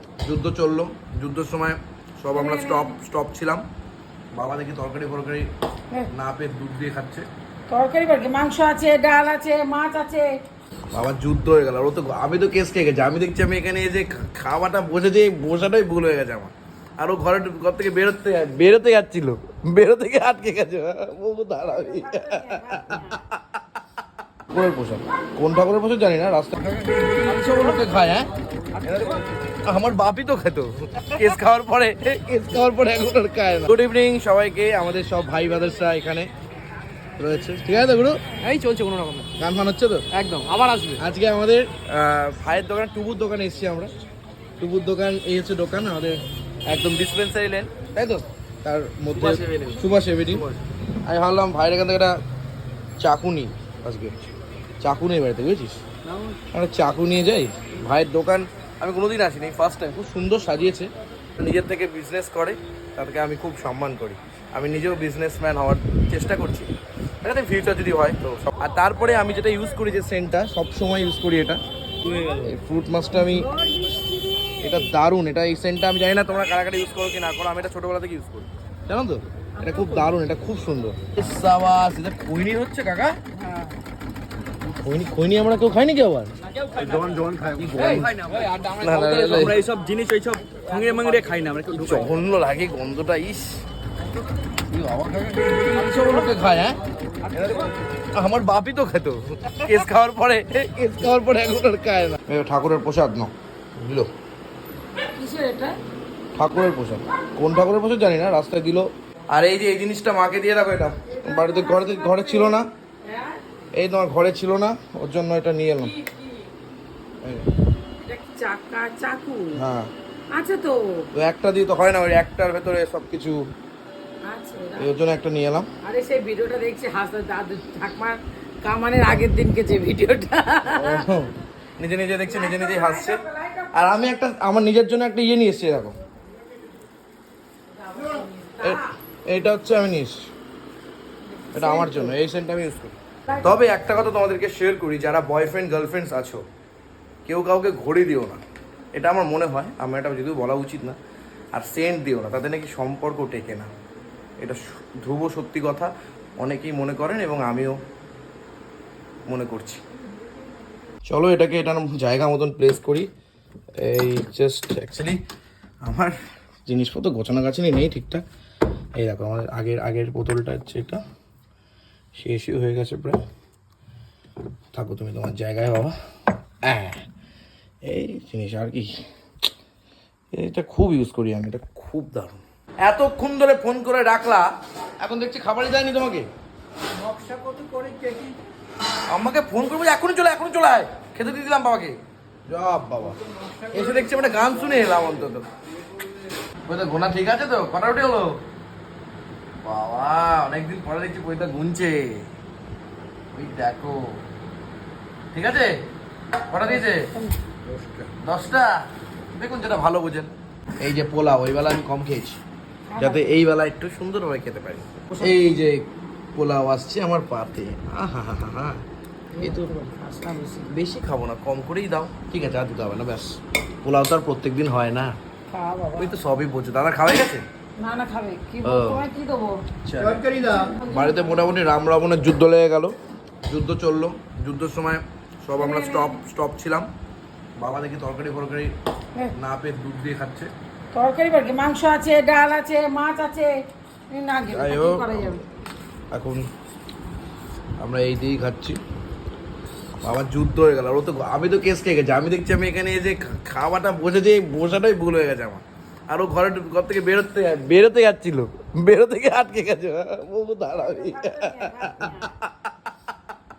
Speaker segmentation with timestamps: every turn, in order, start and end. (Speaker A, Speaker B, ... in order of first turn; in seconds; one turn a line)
Speaker A: 0.2-3.6
Speaker B: 2.3-2.9
Speaker A: 4.3-5.5
Speaker A: 6.1-7.2
Speaker B: 7.7-10.3
Speaker A: 10.9-23.6
Speaker B: 21.7-23.2
Speaker A: 24.5-28.3
Speaker C: 26.8-27.8
Speaker C: 28.7-29.2
Speaker A: 28.8-29.1
Speaker A: 29.6-36.3
Speaker A: 37.2-38.2
Speaker C: 38.4-39.3
Speaker A: 39.4-40.1
Speaker C: 40.1-41.0
Speaker A: 41.0-43.9
Speaker A: 44.6-50.5
Speaker C: 49.2-50.6
Speaker A: 51.0-52.1
Speaker A: 53.0-54.2
Speaker A: 54.8-55.8
Speaker C: 56.1-56.4
Speaker A: 56.5-66.7
Speaker A: 67.2-73.5
Speaker B: 73.2-74.2
Speaker A: 74.6-83.2
Speaker B: 79.6-80.1
Speaker A: 84.6-86.3
Speaker C: 86.5-92.0
Speaker A: 87.5-88.1
Speaker A: 88.8-89.6
Speaker A: 91.7-93.6
Speaker C: 94.7-96.1
Speaker A: 94.8-96.8
Speaker C: 97.2-97.7
Speaker A: 98.1-104.1
Speaker B: 105.0-105.8
Speaker A: 106.3-112.7
Speaker B: 111.1-113.4
Speaker A: 113.8-115.9
Speaker B: 118.0-119.6
Speaker A: 119.5-119.9
Speaker B: 120.3-121.1
Speaker A: 121.1-123.4
Speaker B: 124.2-124.9
Speaker A: 124.8-125.7
Speaker B: 125.8-131.1
Speaker A: 130.6-133.2
Speaker B: 132.3-134.1
Speaker A: 133.7-136.0
Speaker B: 137.8-138.9
Speaker A: 138.6-140.3
Speaker B: 141.3-142.1
Speaker A: 141.5-146.4
Speaker A: 147.2-148.4
Speaker A: 148.9-150.9
Speaker A: 151.5-153.7
Speaker A: 154.4-157.7
Speaker A: 159.3-159.8
Speaker A: 161.1-163.1
Speaker A: 163.8-165.2
Speaker A: 165.8-166.1
Speaker A: 166.7-168.2
Speaker A: 169.0-171.0
Speaker A: 172.2-173.2
Speaker A: 174.7-175.9
Speaker A: 176.6-177.0
Speaker A: 177.8-178.9
Speaker A: 180.3-184.5
Speaker A: 185.0-186.3
Speaker C: 187.0-188.3
Speaker A: 189.1-191.9
Speaker A: 192.5-195.5
Speaker C: 194.0-194.4
Speaker A: 196.7-198.4
Speaker A: 199.6-202.2
Speaker A: 203.3-204.0
Speaker A: 205.3-205.7
Speaker A: 206.5-207.1
Speaker B: 206.7-207.3
Speaker A: 207.7-208.8
Speaker A: 209.3-212.4
Speaker B: 212.9-213.4
Speaker A: 213.0-218.8
Speaker B: 215.1-215.4
Speaker B: 219.3-220.8
Speaker A: 219.4-219.7
Speaker A: 220.7-225.2
Speaker B: 225.5-226.2
Speaker A: 225.9-227.4
Speaker B: 227.8-229.6
Speaker A: 228.6-229.0
Speaker A: 229.8-232.9
Speaker B: 230.2-231.4
Speaker A: 233.5-236.9
Speaker B: 235.6-236.2
Speaker A: 237.6-238.7
Speaker A: 239.3-240.5
Speaker B: 240.9-243.5
Speaker B: 244.1-245.4
Speaker A: 244.5-245.4
Speaker A: 246.1-246.4
Speaker A: 247.8-248.8
Speaker A: 250.0-262.7
Speaker B: 260.7-262.3